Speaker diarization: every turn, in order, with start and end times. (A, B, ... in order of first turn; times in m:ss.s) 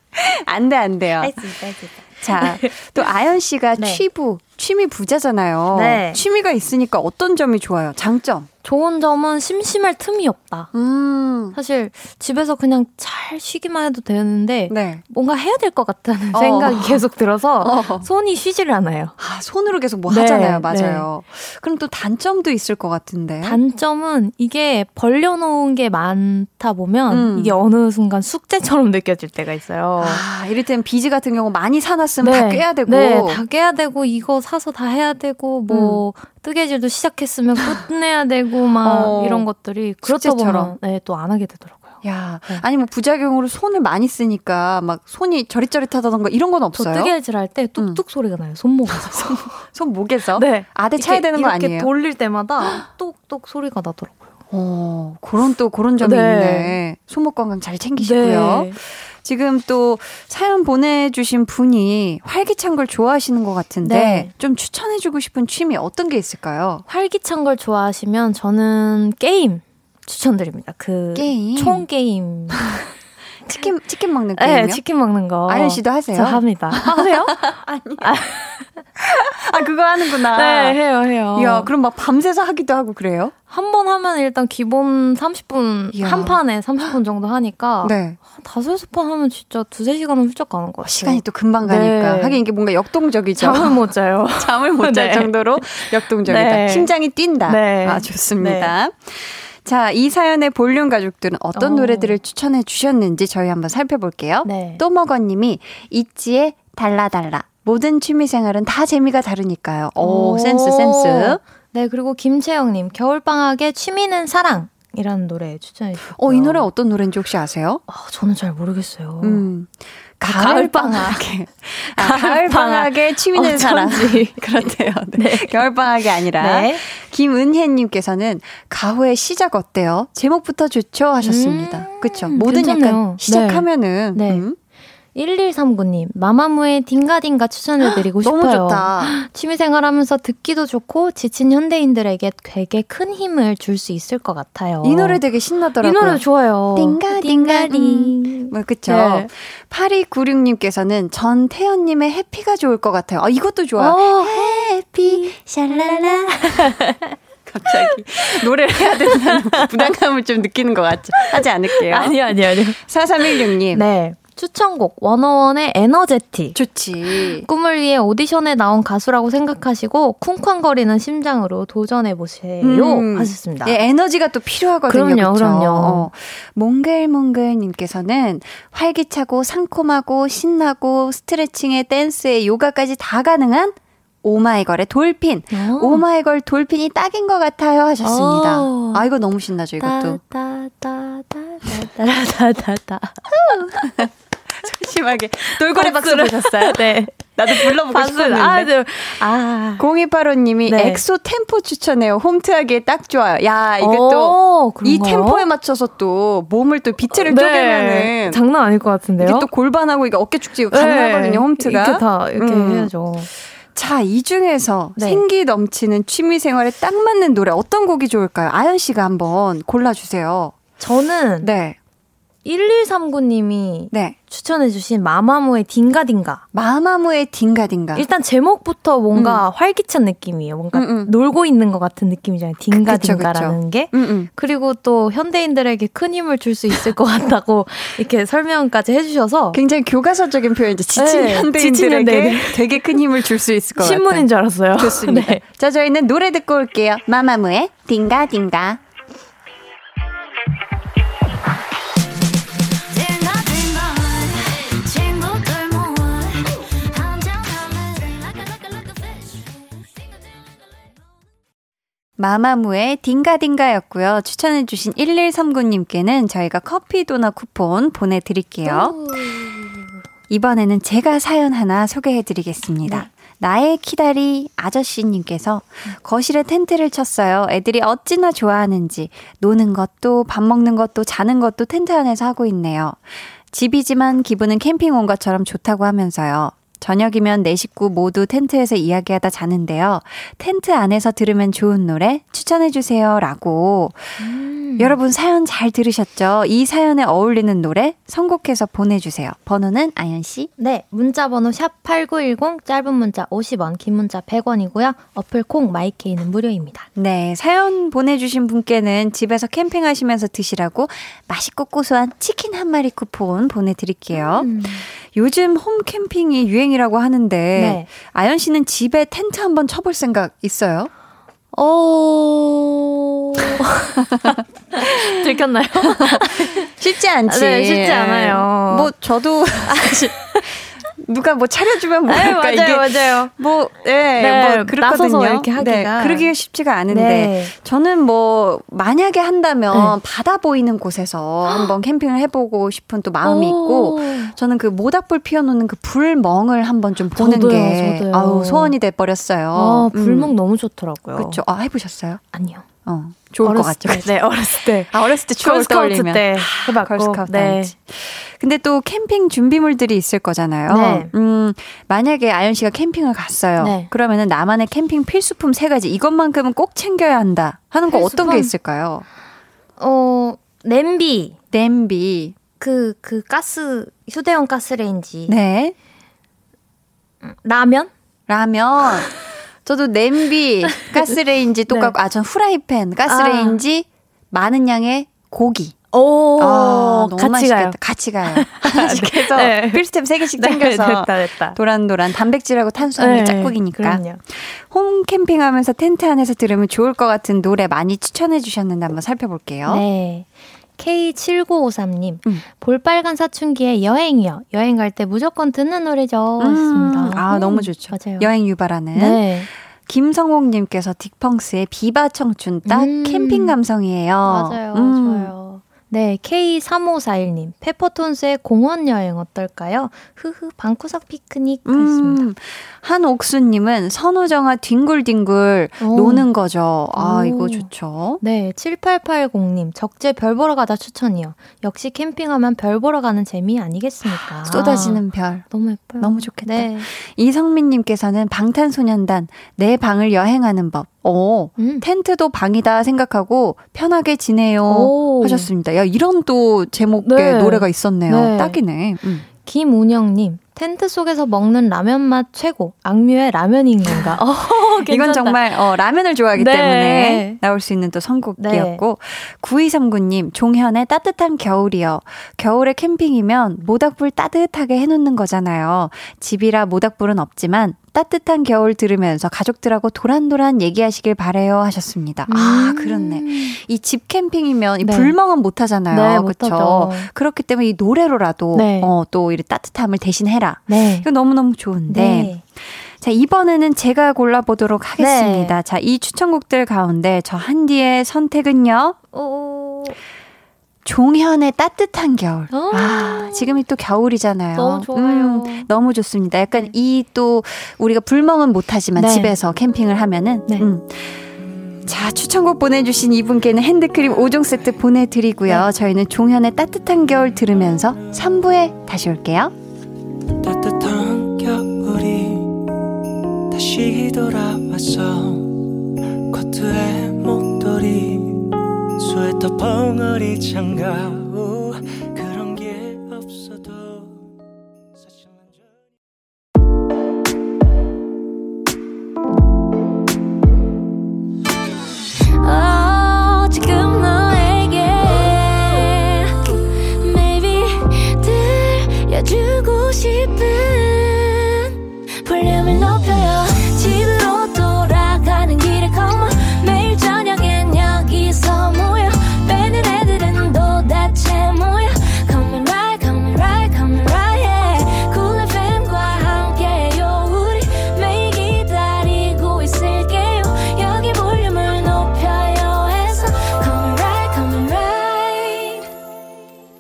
0:00.1-0:01.5 A
0:01.2-0:03.1 B
0:02.2-0:08.5 A
0:03.8-0:04.0 B
0:05.7-0:06.2 B
0:08.6-0:10.7 B
0:10.7-0:11.6 A
0:11.5-0:19.2 B
0:14.7-0:15.0 A
0:16.3-0:17.0 A
0:17.6-0:18.1 A
0:19.2-0:23.6 A
0:20.1-0:21.1 B
0:23.4-0:30.2 B
0:27.1-0:27.6 A
0:30.0-0:33.4 A
0:32.2-0:42.6 B
0:35.7-0:36.0 A
0:38.8-0:39.5 A
0:40.0-0:40.8 A
0:42.0-0:47.1 A
0:46.8-0:49.6 B
0:49.0-0:51.9 A
0:50.4-0:54.3 B
0:54.5-1:06.8 A
0:56.0-0:56.8 B
0:58.0-0:58.8 B
1:03.8-1:04.3 B
1:06.9-1:12.8 B
1:11.2-1:11.9 A
1:13.5-1:13.7 B
1:13.5-1:14.8 A
1:14.4-1:18.8 B
1:15.5-1:18.1 A
1:19.0-1:20.8 A
1:20.3-1:21.7 B
1:21.4-1:23.3 A
1:23.5-1:32.4 B
1:25.9-1:26.9 A
1:27.8-1:28.2 A
1:30.8-1:33.8 A
1:33.4-1:36.9 B
1:34.4-1:51.4 A
1:37.4-1:38.7 B
1:41.5-1:42.2 B
1:44.4-1:44.8 B
1:50.0-1:56.7 B
1:56.1-1:57.8 A
1:57.9-1:59.5 B
1:59.2-1:59.7 A
2:00.2-2:14.6 A
2:00.2-2:01.3 B
2:01.9-2:04.4 B
2:05.2-2:05.6 B
2:06.3-2:06.8 B
2:11.2-2:14.5 B
2:15.2-2:25.2 B
2:17.8-2:19.2 A
2:24.8-2:26.2 A
2:25.8-2:29.3 B
2:26.8-2:36.8 A
2:33.8-2:39.9 B
2:37.5-2:43.8 A
2:41.1-2:53.8 B
2:46.5-2:47.5 A
2:52.6-3:10.2 A
2:54.9-2:56.1 B
3:05.5-3:06.1 B
3:08.0-3:09.1 B
3:09.8-3:14.0 B
3:13.3-3:14.1 A
3:14.6-3:19.2 A
3:15.4-3:19.8 B
3:19.8-3:28.4 A
3:20.7-3:21.0 B
3:23.8-3:25.5 B
3:27.1-3:29.5 B
3:29.2-3:32.9 A
3:30.7-3:33.3 B
3:33.7-3:40.6 A
3:35.0-3:35.2 B
3:40.8-3:41.5 B
3:41.4-3:41.8 A
3:42.4-3:46.4 B
3:46.5-3:48.1 A
3:48.0-3:59.6 B
3:49.1-3:49.4 A
3:50.7-3:51.1 A
3:52.7-3:54.3 A
3:59.5-4:08.8 A
4:01.0-4:03.0 B
4:03.8-4:05.4 B
4:12.9-4:19.5 B
4:22.2-4:29.0 A
4:28.6-4:29.9 B
4:30.3-4:43.0 A
4:43.5-4:54.2 A
4:54.2-4:55.0 B
4:54.8-5:00.5 A
5:00.6-5:06.9 B
5:07.0-5:20.9 A
5:14.1-5:14.9 B
5:17.6-5:17.9 B
5:21.6-5:22.8 A
5:21.6-5:22.4 B
5:23.4-5:26.7 B
5:23.4-5:25.3 A
5:25.9-5:50.3 A
5:27.3-5:28.9 B
5:29.7-5:30.5 B
5:32.1-5:33.3 B
5:34.2-5:36.3 B
5:36.9-5:37.5 B
5:41.4-5:41.7 B
5:43.2-5:44.4 B
5:47.1-5:48.8 B
5:49.5-5:51.4 B
5:51.2-5:52.2 A
5:52.3-5:52.7 B
5:52.8-6:09.1 A
5:53.4-5:57.7 B
6:00.7-6:01.1 B
6:03.6-6:03.9 B
6:07.9-6:08.5 B
6:09.8-6:11.4 B
6:11.5-6:12.4 A
6:12.6-6:15.4 B
6:15.3-6:15.8 A
6:17.2-6:17.9 B
6:18.3-6:19.1 A
6:19.6-6:25.8 A
6:21.7-6:22.0 B
6:23.1-6:23.6 B
6:25.9-6:31.6 B
6:26.4-6:39.8 A
6:33.0-6:34.2 B
6:39.7-6:40.3 B
6:40.8-6:48.3 B
6:46.4-6:55.3 A
6:49.0-6:49.5 B
6:52.7-6:53.6 B
6:54.2-7:02.2 B
7:01.7-7:08.2 A
7:05.8-7:06.3 B
7:07.0-7:07.7 B
7:08.2-7:16.9 B
7:14.1-7:15.4 A
7:16.0-7:29.3 A
7:21.6-7:21.8 B
7:24.7-7:25.5 B
7:27.0-7:28.6 B
7:29.4-7:35.4 B
7:33.9-8:09.0 A
7:36.4-7:37.4 B
7:38.4-7:38.8 B
7:52.3-7:53.6 B
7:54.8-7:55.2 B
7:55.9-7:57.1 B
7:58.5-7:58.9 B
8:00.7-8:01.1 B
8:01.9-8:02.4 B
8:05.0-8:05.6 B
8:09.1-8:10.0 B
8:10.8-8:21.3 A
8:12.5-8:13.6 B
8:14.6-8:15.7 B
8:19.0-8:19.3 B
8:21.8-8:29.5 A
8:30.4-8:32.6 C
8:33.5-8:35.7 C
8:36.3-8:44.2 C
8:52.4-9:25.9 B